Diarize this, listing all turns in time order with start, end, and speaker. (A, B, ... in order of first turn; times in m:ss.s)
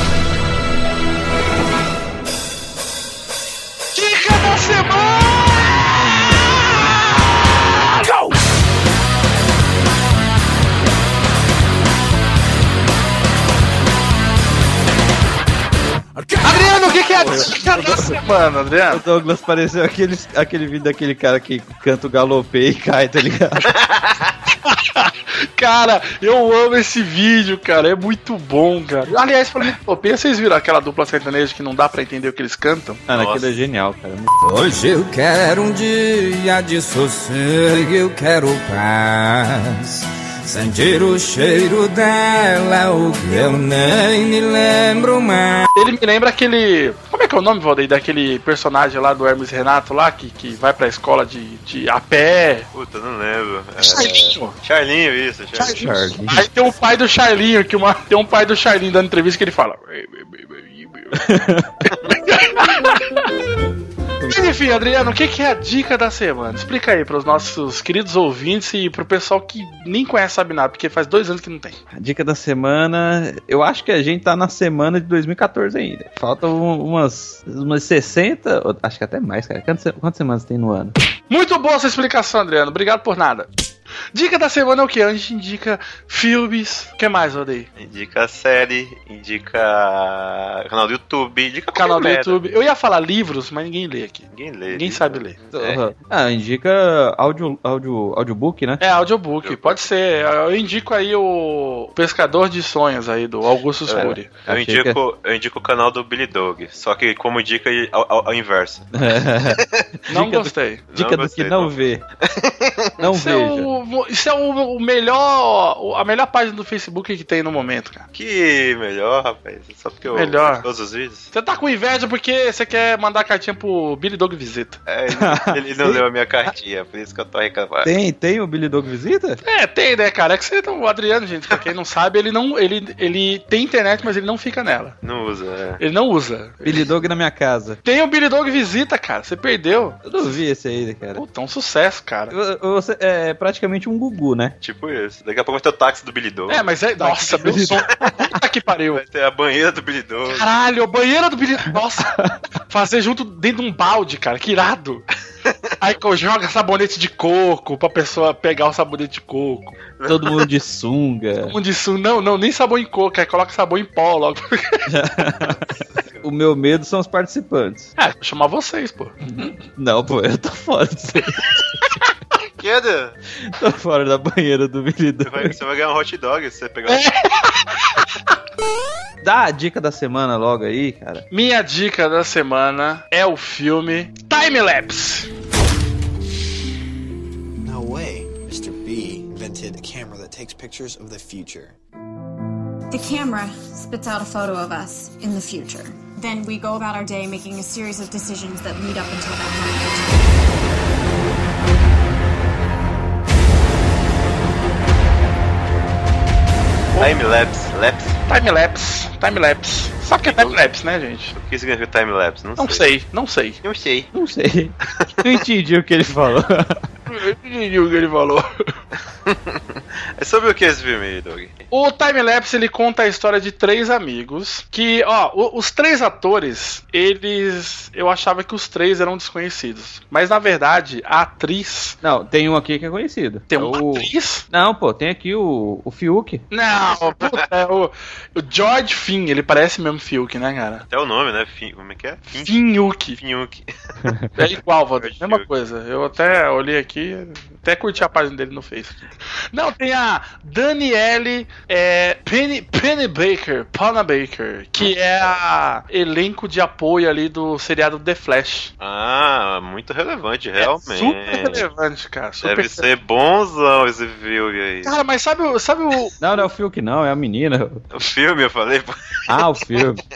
0:03.9-0:08.1 A
0:16.4-0:19.0 A
0:17.2-0:18.2 B
0:18.9-0:23.6 B
0:23.8-0:24.2 C
0:24.7-0:33.0 A
0:33.1-0:34.3 B
0:33.1-0:33.5 C
0:34.4-0:45.7 D
0:45.7-0:52.7 A
0:52.7-0:55.9 C
0:53.8-0:54.5 A
0:55.6-1:01.2 A
0:55.6-0:56.4 B
1:01.2-1:01.7 B
1:01.9-1:03.2 A
1:04.3-1:11.8 A
1:11.9-1:20.9 B
1:21.3-1:23.5 A
1:24.1-1:27.7 A
1:27.8-1:32.4 C
1:31.7-1:35.4 A
1:34.3-1:35.8 C
1:35.5-1:38.8 B
1:38.8-1:44.3 A
1:39.4-1:39.9 C
1:43.9-1:48.9 C
1:43.9-1:45.0 B
1:48.9-1:49.6 B
1:50.1-1:50.8 A
1:50.1-1:52.0 B
1:50.9-1:51.8 C
1:52.3-1:52.9 C
1:53.0-1:53.7 B
1:53.1-1:58.0 A
1:58.1-2:01.3 C
2:00.1-2:00.6 A
2:01.3-2:04.8 A
2:04.9-2:07.9 C
2:05.1-2:06.0 B
2:07.8-2:09.4 B
2:09.4-2:15.0 A
2:15.0-2:15.8 C
2:15.8-2:16.8 A
2:16.6-2:17.8 B
2:17.8-2:20.0 A
2:20.0-2:21.2 B
2:21.1-2:22.3 A
2:22.3-2:24.5 B
2:24.6-2:26.7 C
2:26.5-2:29.0 A
2:27.0-2:27.8 B
2:27.4-2:28.1 C
2:28.9-2:30.5 C
2:30.3-2:32.1 A
2:32.7-2:35.0 A
2:35.8-2:39.7 A
2:40.0-2:40.4 C
2:40.0-2:41.5 B
2:41.4-2:44.8 A
2:44.9-2:45.6 B
2:46.2-2:47.9 B
2:48.0-2:49.4 A
2:49.8-2:51.4 B
2:52.6-2:53.1 C
2:53.5-2:55.5 B
2:55.2-2:57.1 C
2:56.9-2:57.4 A
2:59.2-3:01.2 B
3:01.3-3:05.3 A
3:07.8-3:11.7 E
3:12.9-3:20.3 F
3:27.0-3:28.2 C
3:28.3-3:31.3 A
3:30.2-3:30.6 C
3:31.3-3:32.9 C
3:32.6-3:33.6 A
3:33.6-3:34.1 C
3:34.1-3:36.8 B
3:37.1-3:38.4 A
3:39.3-3:39.6 C
3:40.2-3:41.6 C
3:41.7-3:52.0 A
3:52.0-3:56.4 B
3:53.5-3:54.4 A
3:56.5-4:00.8 A
3:56.9-3:57.4 C
4:00.9-4:02.6 C
4:02.4-4:03.2 A
4:03.2-4:03.7 C
4:04.4-4:09.0 A
4:05.0-4:05.5 C
4:09.5-4:18.7 A
4:14.8-4:15.4 C
4:18.8-4:21.7 C
4:20.6-4:22.9 A
4:22.4-4:25.0 C
4:24.8-4:26.1 A
4:26.2-4:27.8 B
4:27.9-4:29.0 C
4:29.3-4:30.0 B